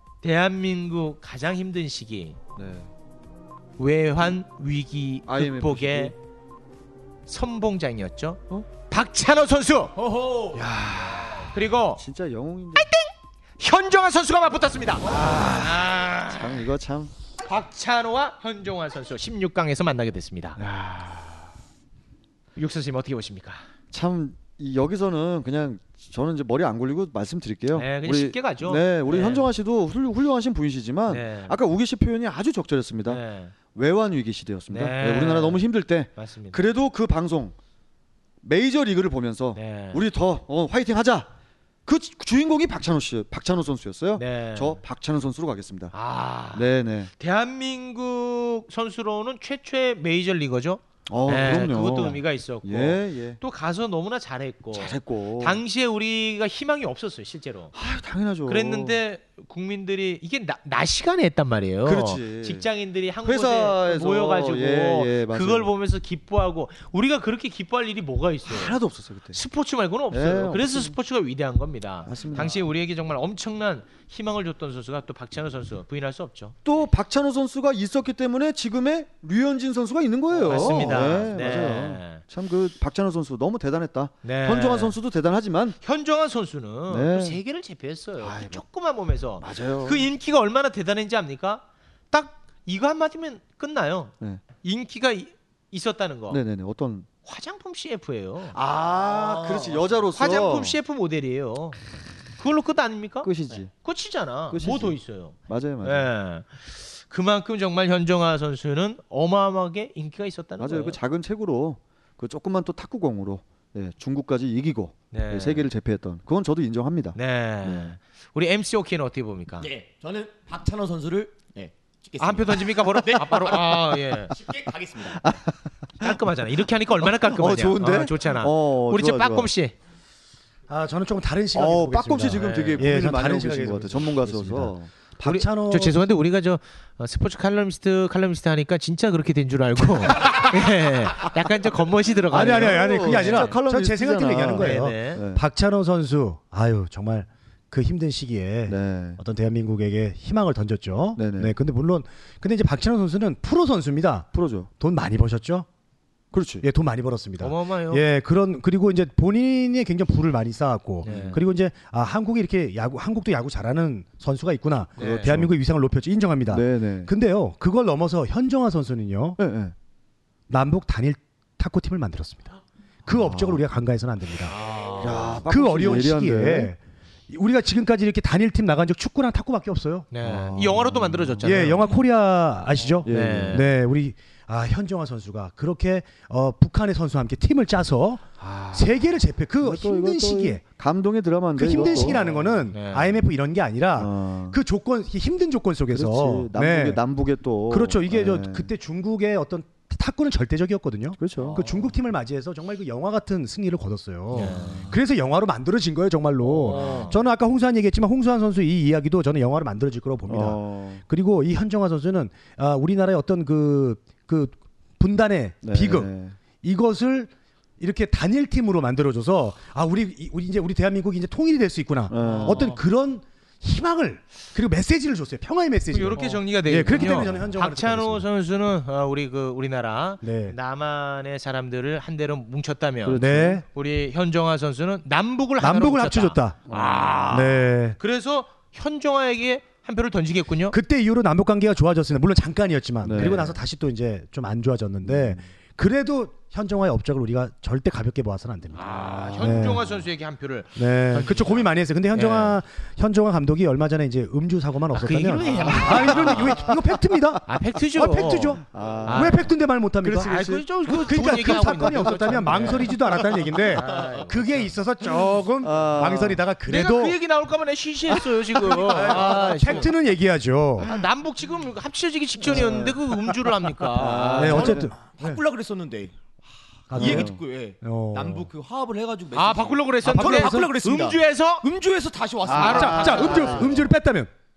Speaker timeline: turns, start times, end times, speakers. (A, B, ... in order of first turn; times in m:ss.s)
0:00.2-0:02.4 A
0:02.6-0:02.9 B
0:03.8-0:06.2 A
0:05.3-0:06.1 B
0:07.3-0:10.0 A
0:10.0-0:10.6 C
0:10.5-0:12.9 B
0:11.5-0:12.0 A
0:12.8-0:13.1 A
0:13.6-0:16.7 A
0:15.1-0:17.1 B
0:17.4-0:20.6 A
0:20.6-0:21.5 B
0:22.6-0:23.6 A
0:23.9-0:33.2 B
0:27.7-0:29.5 A
0:31.1-0:31.6 A
0:33.1-0:33.5 A
0:33.7-0:37.6 B
0:34.7-0:35.6 A
0:36.2-0:36.6 A
0:38.4-0:41.3 B
0:39.6-0:40.0 A
0:41.9-0:45.9 B
0:44.2-0:44.8 A
0:45.9-0:46.6 A
0:46.5-0:47.1 B
0:47.2-0:57.7 A
0:51.1-0:53.4 B
0:54.7-0:55.6 B
0:57.8-0:59.0 B
0:58.5-1:08.8 A
1:01.8-1:02.7 B
1:03.2-1:05.7 B
1:08.5-1:09.4 B
1:09.3-1:16.6 A
1:10.1-1:11.0 B
1:12.1-1:12.6 B
1:16.6-1:25.8 B
1:20.3-1:22.2 A
1:24.2-1:25.0 A
1:25.8-1:36.4 A
1:26.9-1:27.4 B
1:28.2-1:28.6 B
1:29.4-1:30.1 B
1:36.3-1:37.1 B
1:37.2-1:38.6 A
1:38.5-1:40.8 B
1:38.9-1:39.9 C
1:40.2-1:41.8 A
1:42.4-1:51.0 A
1:43.2-1:43.7 B
1:44.5-1:46.1 B
1:50.6-1:58.0 B
1:55.1-1:55.7 A
1:57.2-1:59.7 A
1:59.6-2:05.3 C
2:02.2-2:04.4 A
2:05.2-2:05.5 B
2:06.0-2:09.7 A
2:07.1-2:09.5 B
2:10.7-2:16.0 D
2:11.5-2:14.9 B
2:12.4-2:12.8 A
2:15.2-2:23.6 A
2:22.3-2:34.3 D
2:22.3-2:25.4 B
2:24.6-2:25.2 A
2:28.7-2:29.2 B
2:31.2-2:31.5 B
2:34.3-2:34.7 B
2:34.8-2:35.7 D
2:36.3-2:36.6 B
2:36.6-2:49.4 D
2:37.4-2:38.0 A
2:41.0-2:41.4 A
2:41.0-2:41.4 B
2:45.0-2:45.3 A
2:45.0-2:45.5 B
2:46.5-2:47.1 B
2:49.4-2:49.7 B
2:50.5-2:52.5 D
2:53.0-2:54.6 D
2:53.1-2:53.6 B
2:54.5-2:55.4 A
2:55.0-2:56.7 B
2:55.3-2:56.8 D
2:57.3-3:00.1 D
3:00.1-3:02.0 A
3:00.2-3:01.4 B
3:01.4-3:10.6 D
3:03.0-3:03.6 B
3:03.0-3:03.7 A
3:08.4-3:08.9 B
3:09.6-3:12.2 B
3:11.6-3:17.0 D
3:11.8-3:13.2 A
3:14.0-3:14.6 B
3:15.9-3:18.7 B
3:17.7-3:36.1 D
3:21.2-3:21.6 B
3:24.3-3:24.8 A
3:24.4-3:24.9 B
3:26.6-3:27.2 A
3:26.7-3:27.1 B
3:30.3-3:31.0 B
3:35.6-3:36.4 B
3:36.6-3:48.3 D
3:42.1-3:42.8 B
3:45.9-4:00.8 A
3:50.2-3:50.6 D
3:53.1-3:53.6 B
3:53.2-3:53.6 D
3:55.6-3:56.6 D
3:56.7-3:57.3 B
3:57.3-3:58.0 D
4:00.7-4:09.8 D
4:03.0-4:03.5 B
4:03.2-4:03.5 A
4:05.0-4:05.4 B
4:08.7-4:12.6 A
4:09.2-4:09.8 B
4:10.8-4:27.2 D
4:14.9-4:16.7 A
4:15.9-4:16.5 B
4:17.5-4:19.4 A
4:18.7-4:19.5 B
4:20.0-4:20.6 B
4:20.2-4:23.0 A
4:23.8-4:24.7 A
4:25.6-4:26.4 B
4:26.7-4:29.9 A
4:28.8-4:30.9 D
4:28.9-4:29.6 B
4:30.8-4:34.8 A
4:32.4-4:33.0 B
4:34.0-4:36.1 C
4:34.0-4:34.9 B
4:34.4-4:35.4 D
4:36.9-4:43.9 C
4:36.9-4:38.5 D
4:37.0-4:37.4 B
4:39.3-4:41.7 A
4:40.0-4:40.7 D
4:42.5-4:43.8 B
4:42.5-4:43.6 A
4:42.6-4:44.3 D